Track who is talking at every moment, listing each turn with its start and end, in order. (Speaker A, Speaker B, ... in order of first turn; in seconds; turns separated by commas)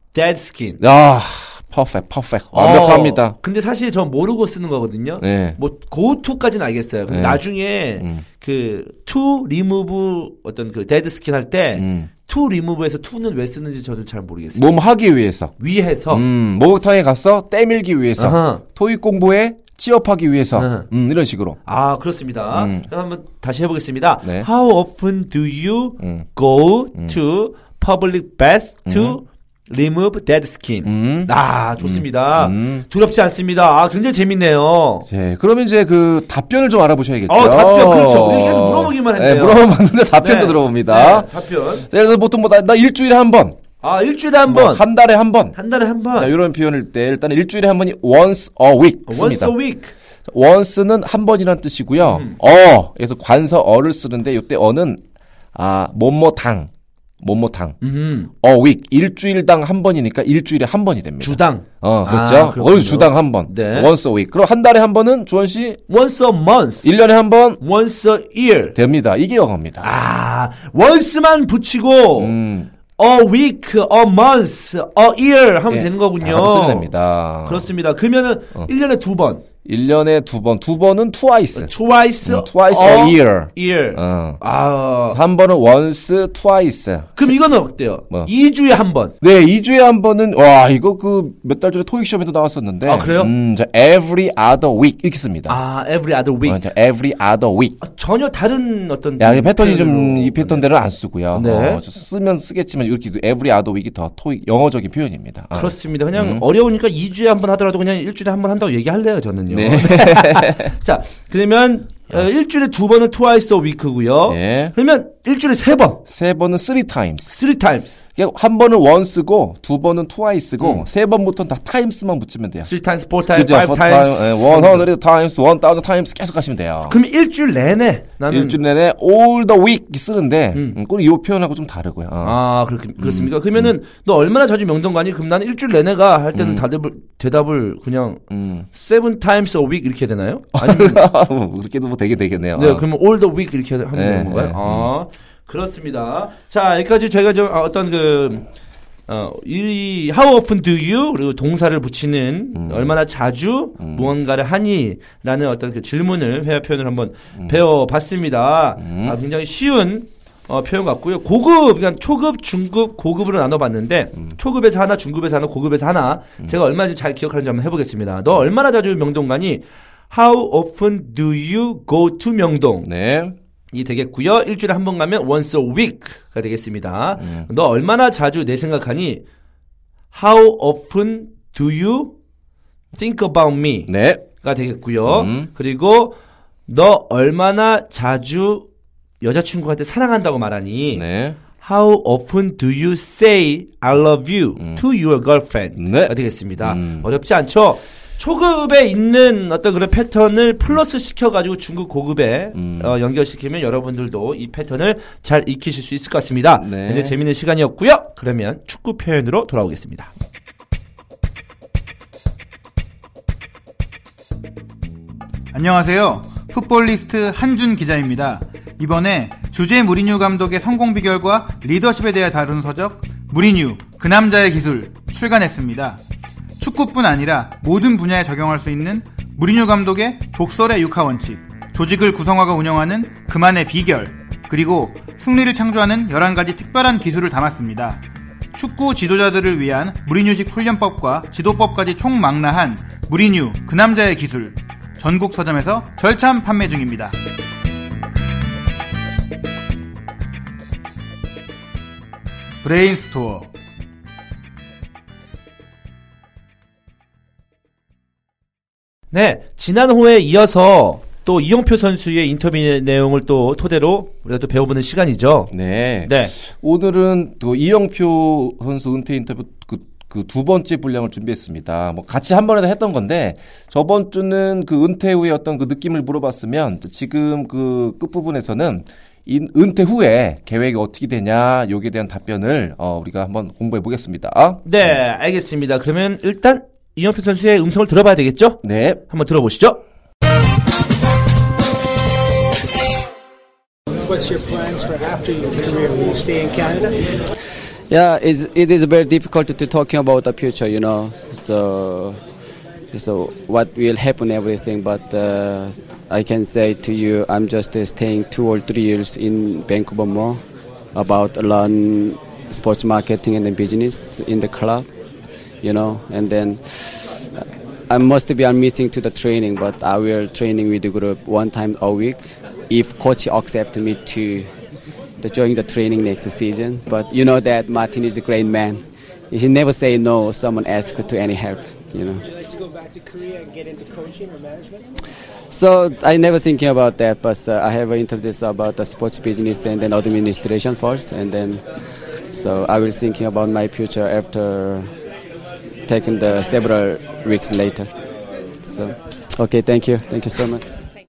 Speaker A: 0.1-0.8, Speaker B: 0.8-3.4, Speaker A: 2.5-14.7, Speaker B: 5.2-5.6, Speaker B: 7.1-7.4, Speaker B: 8.0-8.2, Speaker B: 11.7-12.1, Speaker B: 14.5-15.5, Speaker A: 15.6-16.2, Speaker B: 16.1-21.6, Speaker A: 18.2-18.6, Speaker A: 20.5-20.9, Speaker A: 21.6-35.1, Speaker B: 22.5-22.9, Speaker B: 24.2-24.5, Speaker B: 26.0-26.2, Speaker B: 28.9-29.2, Speaker B: 30.8-32.9, Speaker B: 35.1-43.6, Speaker A: 37.3-41.9, Speaker A: 43.8-44.8, Speaker B: 44.5-45.5, Speaker A: 45.5-46.3, Speaker B: 46.1-49.5, Speaker A: 49.0-49.9, Speaker B: 50.3-55.0, Speaker A: 52.1-52.4, Speaker B: 55.5-56.7, Speaker B: 57.2-57.8, Speaker A: 57.8-58.3, Speaker B: 58.3-65.8, Speaker A: 61.2-63.9, Speaker A: 65.9-66.9, Speaker B: 66.8-67.6, Speaker A: 67.6-68.8, Speaker B: 68.7-69.9, Speaker A: 69.8-72.3, Speaker B: 72.2-72.7, Speaker A: 73.0-76.9, Speaker B: 75.7-77.7, Speaker A: 77.4-79.4, Speaker B: 79.6-81.7, Speaker A: 81.5-85.2, Speaker B: 82.2-84.4, Speaker B: 85.1-87.3, Speaker A: 87.2-89.1, Speaker B: 89.2-95.6, Speaker A: 92.8-93.3, Speaker A: 95.5-96.6, Speaker B: 96.4-97.8, Speaker A: 97.8-100.6, Speaker B: 99.2-106.4, Speaker A: 101.3-101.8, Speaker A: 105.5-116.0, Speaker B: 109.5-110.7, Speaker B: 114.3-114.7, Speaker B: 116.1-117.3, Speaker A: 117.3-117.9, Speaker B: 118.1-122.7, Speaker A: 122.6-124.9, Speaker B: 123.3-127.0, Speaker A: 126.9-128.6, Speaker B: 128.3-132.4, Speaker A: 132.2-141.0, Speaker B: 133.0-133.7, Speaker B: 136.3-136.6, Speaker B: 138.3-138.7, Speaker B: 140.5-142.8, Speaker A: 142.5-148.5, Speaker B: 143.9-144.9, Speaker A: 149.1-172.9, Speaker B: 152.5-153.0, Speaker B: 153.8-154.1, Speaker B: 157.4-157.6, Speaker B: 158.8-159.2, Speaker B: 172.8-173.3, Speaker A: 173.7-179.2, Speaker B: 177.2-177.5, Speaker A: 180.1-182.1, Speaker A: 183.0-188.7, Speaker B: 183.9-184.2, Speaker B: 185.1-185.5, Speaker A: 189.2-191.0, Speaker B: 190.9-191.4, Speaker A: 191.6-210.1, Speaker B: 195.8-197.0, Speaker B: 202.5-202.9, Speaker B: 206.6-207.2, Speaker C: 215.5-226.0, Speaker C: 226.6-238.0, Speaker C: 238.5-247.1, Speaker C: 252.6-253.5, Speaker A: 259.1-265.5, Speaker B: 265.5-284.9, Speaker A: 266.0-266.3, Speaker A: 284.6-289.8, Speaker B: 288.6-289.0, Speaker D: 294.0-297.1, Speaker E: 297.9-302.2, Speaker E: 302.9-310.4, Speaker E: 310.9-314.9, Speaker E: 315.6-316.7, Speaker E: 317.9-324.5, Speaker E: 325.2-332.2, Speaker D: 332.2-334.9, Speaker E: 335.5-341.6, Speaker E: 342.3-344.9, Speaker E: 345.9-347.9, Speaker E: 348.6-350.7